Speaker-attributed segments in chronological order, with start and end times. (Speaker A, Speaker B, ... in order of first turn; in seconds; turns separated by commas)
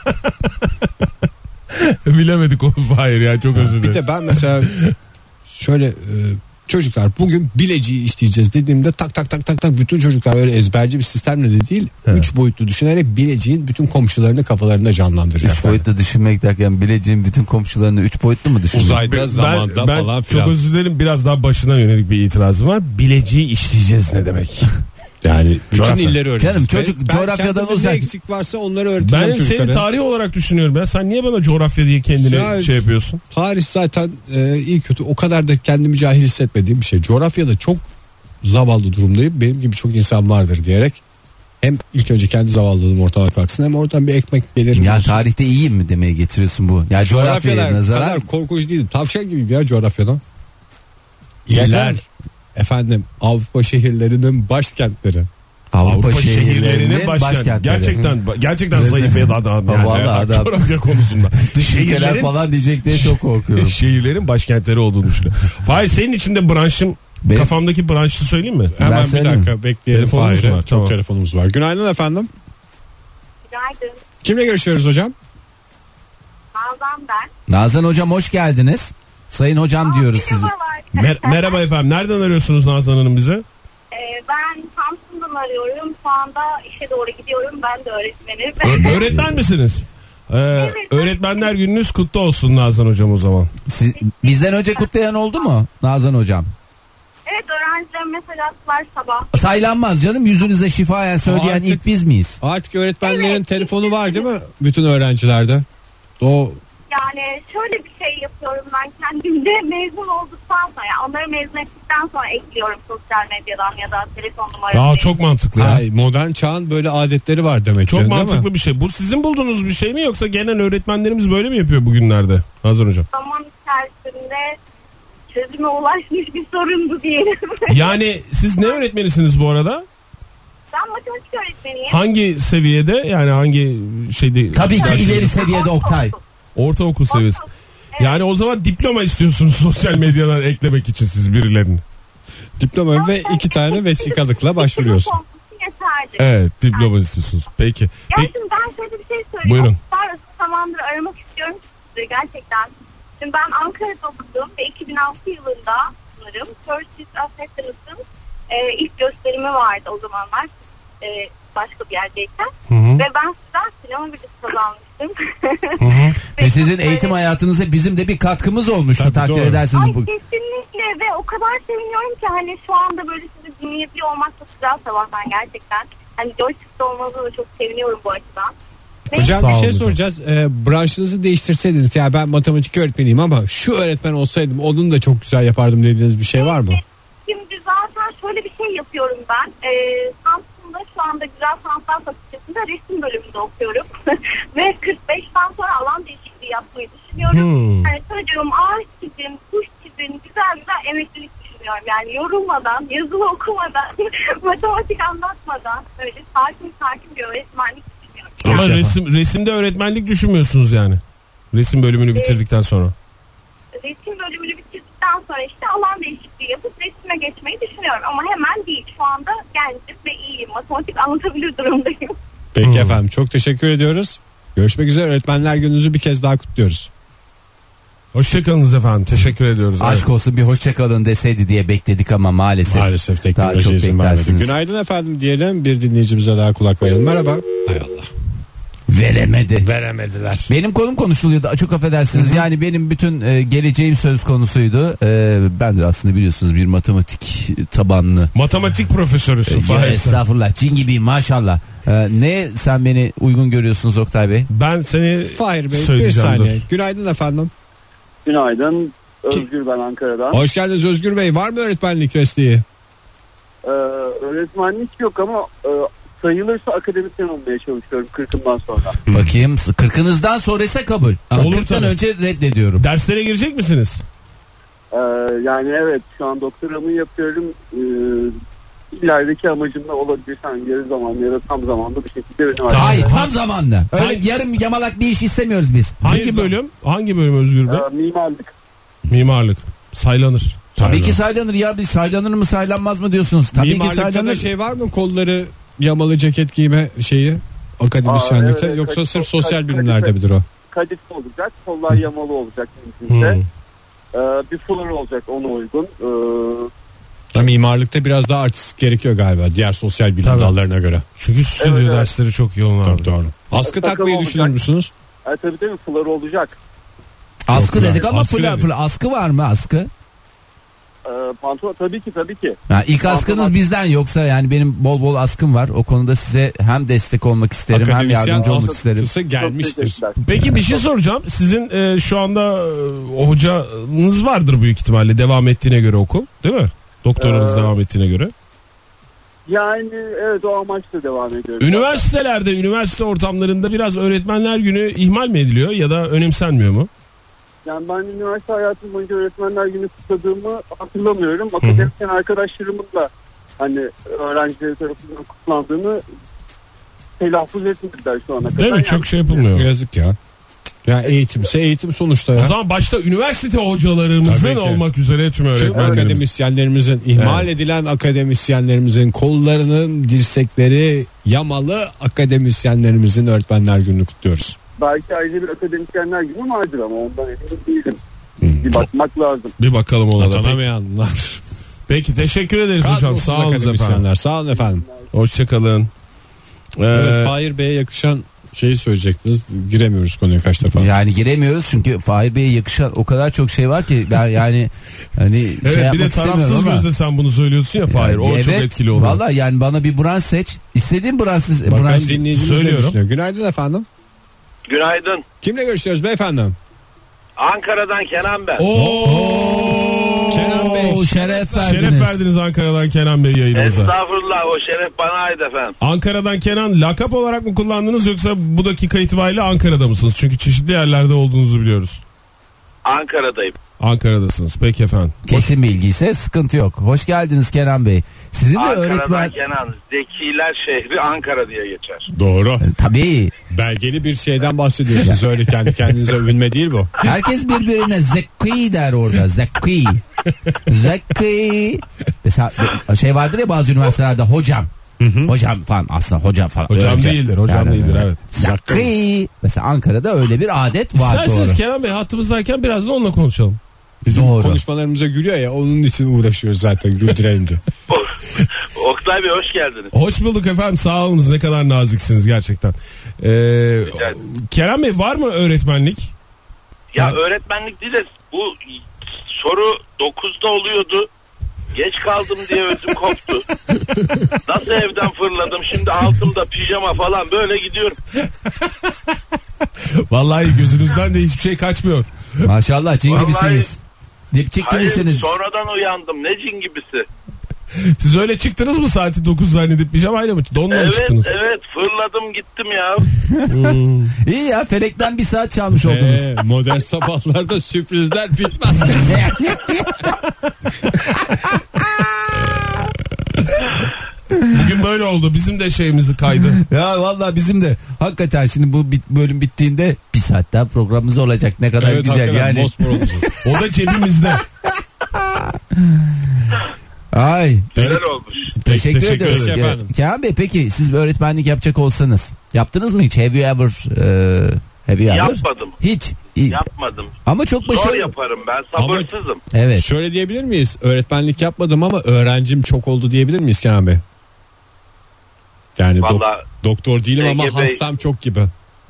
Speaker A: 1.7-4.9, Speaker B: 3.5-4.7, Speaker B: 5.5-15.8, Speaker C: 15.4-19.1, Speaker B: 18.7-20.6, Speaker A: 19.1-24.7, Speaker B: 25.2-29.9, Speaker A: 25.7-26.2, Speaker C: 26.4-28.1, Speaker A: 29.0-33.2, Speaker B: 32.2-37.9, Speaker B: 38.4-41.0, Speaker B: 41.6-45.2, Speaker C: 44.7-48.3, Speaker B: 47.0-50.2, Speaker B: 51.5-55.3, Speaker C: 51.5-52.0, Speaker C: 55.7-58.1, Speaker A: 55.8-62.3, Speaker C: 58.7-63.8, Speaker A: 62.9-68.7, Speaker C: 67.2-67.5, Speaker B: 68.8-72.3, Speaker C: 68.8-69.5, Speaker A: 69.9-71.0, Speaker D: 73.5-74.0, Speaker B: 74.2-75.1, Speaker D: 76.5-77.3, Speaker C: 77.5-80.5, Speaker D: 79.8-81.6, Speaker A: 80.9-83.4, Speaker D: 83.9-89.1, Speaker A: 88.6-93.5, Speaker C: 88.8-89.3, Speaker D: 90.5-91.5, Speaker C: 93.7-96.5, Speaker D: 94.0-94.8, Speaker D: 97.3-99.4, Speaker C: 99.3-102.4, Speaker B: 101.2-101.8, Speaker B: 102.4-105.6, Speaker D: 103.0-104.2, Speaker B: 106.2-106.6, Speaker D: 106.9-115.1, Speaker A: 114.7-115.8, Speaker B: 115.6-118.5, Speaker A: 117.9-123.1, Speaker D: 123.1-124.6, Speaker D: 125.3-128.0, Speaker A: 127.7-129.8, Speaker D: 130.7-132.0, Speaker A: 131.9-135.4, Speaker C: 134.5-136.1, Speaker D: 134.8-136.2, Speaker A: 136.6-137.4, Speaker D: 137.1-138.2, Speaker A: 138.0-141.8, Speaker B: 142.6-145.1, Speaker D: 142.9-146.9, Speaker A: 146.2-148.3, Speaker D: 148.1-167.2, Speaker A: 149.4-149.8, Speaker A: 162.7-163.1, Speaker A: 165.8-166.2, Speaker C: 166.4-170.1, Speaker B: 169.0-169.6, Speaker D: 169.7-178.5, Speaker D: 179.1-179.4, Speaker A: 179.1-180.0, Speaker B: 179.1-186.8, Speaker D: 186.4-208.7, Speaker A: 197.3-197.9, Speaker A: 208.4-211.0, Speaker C: 208.4-208.9, Speaker A: 211.5-212.9, Speaker D: 212.1-212.4, Speaker D: 213.8-222.2, Speaker B: 222.6-226.9, Speaker A: 222.6-223.0, Speaker A: 228.1-230.1, Speaker C: 229.8-234.6, Speaker B: 232.7-238.1, Speaker C: 238.9-239.7, Speaker B: 239.6-240.5, Speaker C: 240.5-248.3, Speaker A: 248.3-250.2, Speaker C: 249.5-254.5, Speaker A: 254.5-256.6, Speaker B: 255.4-257.5, Speaker E: 258.2-260.4, Speaker B: 260.3-262.6, Speaker E: 263.6-269.0, Speaker C: 269.1-272.8, Speaker A: 271.3-272.0, Speaker A: 272.8-274.0, Speaker E: 274.9-278.4, Speaker E: 278.9-283.1, Speaker A: 282.7-283.3, Speaker C: 282.7-286.2, Speaker A: 283.9-284.2, Speaker A: 286.0-287.9, Speaker B: 286.0-286.5, Speaker E: 287.7-288.5, Speaker A: 289.1-290.6, Speaker B: 290.8-291.2, Speaker C: 290.8-294.5, Speaker B: 293.5-300.4, Speaker E: 298.1-300.1, Speaker E: 300.7-303.4, Speaker A: 303.1-303.5, Speaker E: 304.1-306.7, Speaker B: 307.3-311.1, Speaker A: 310.2-310.5, Speaker A: 311.1-313.1, Speaker E: 311.6-312.1, Speaker B: 312.9-314.9, Speaker E: 313.6-314.6, Speaker E: 315.2-316.6, Speaker C: 317.5-319.9, Speaker B: 317.5-318.6, Speaker E: 321.1-323.5, Speaker C: 322.7-329.1, Speaker B: 327.7-330.0, Speaker E: 328.4-330.2, Speaker A: 330.2-338.3, Speaker E: 337.2-337.7, Speaker E: 339.5-342.1, Speaker A: 341.6-346.9, Speaker E: 347.6-356.0, Speaker A: 351.6-351.9, Speaker E: 357.2-359.5, Speaker A: 358.5-359.7, Speaker B: 359.5-360.1, Speaker B: 360.9-362.5, Speaker A: 362.4-366.3, Speaker B: 364.2-364.8, Speaker B: 365.6-374.6, Speaker E: 365.7-366.1, Speaker A: 367.1-367.5, Speaker E: 374.8-378.0, Speaker B: 378.4-378.7, Speaker E: 378.6-379.5, Speaker A: 379.6-380.6, Speaker B: 380.2-381.4, Speaker A: 381.9-384.0, Speaker B: 382.8-384.9, Speaker E: 384.5-385.1, Speaker A: 385.1-385.9, Speaker A: 386.8-387.4, Speaker B: 386.9-390.9, Speaker C: 390.6-396.9, Speaker A: 395.6-399.2, Speaker C: 397.9-402.2, Speaker B: 401.6-403.9, Speaker A: 402.3-403.0, Speaker F: 404.7-405.2, Speaker B: 405.4-406.6, Speaker F: 407.4-408.6, Speaker A: 408.6-410.7, Speaker B: 408.8-409.2, Speaker C: 408.8-412.2, Speaker B: 410.3-411.7, Speaker A: 411.6-413.9, Speaker F: 413.5-415.8, Speaker A: 415.8-422.0, Speaker F: 422.9-423.6, Speaker A: 423.8-425.5, Speaker C: 425.3-429.3, Speaker F: 428.6-432.1, Speaker B: 432.1-432.7, Speaker C: 432.6-433.3, Speaker B: 433.5-436.9, Speaker C: 437.0-440.0, Speaker C: 440.6-444.7, Speaker B: 445.0-445.3, Speaker C: 445.2-451.6, Speaker A: 446.7-448.2, Speaker B: 448.4-448.9, Speaker A: 450.9-453.6, Speaker B: 454.0-457.6, Speaker C: 454.1-454.6, Speaker F: 458.7-459.9, Speaker A: 459.9-466.1, Speaker F: 466.9-468.7, Speaker F: 469.3-471.1, Speaker F: 471.7-473.4, Speaker F: 474.4-478.0, Speaker A: 479.8-482.4, Speaker C: 482.4-483.8, Speaker F: 483.1-483.7, Speaker C: 484.3-485.3, Speaker F: 484.6-487.1, Speaker A: 487.7-491.3, Speaker F: 490.7-493.1, Speaker C: 493.2-496.3, Speaker A: 493.5-494.2, Speaker B: 495.8-499.4, Speaker C: 498.9-500.1, Speaker C: 501.3-503.0, Speaker C: 504.3-504.6, Speaker A: 504.5-506.6, Speaker C: 506.6-513.4, Speaker B: 511.8-513.3, Speaker A: 513.4-514.4, Speaker C: 514.6-516.5, Speaker C: 517.1-517.9, Speaker B: 517.8-518.0, Speaker F: 517.8-518.5, Speaker C: 518.6-526.6, Speaker A: 518.6-519.6, Speaker B: 518.8-519.9, Speaker F: 525.1-525.8, Speaker F: 526.5-529.4, Speaker C: 527.3-528.1, Speaker B: 528.7-529.1, Speaker C: 529.5-529.9, Speaker B: 529.8-534.0, Speaker B: 535.8-538.5, Speaker F: 536.0-536.5, Speaker F: 537.2-537.8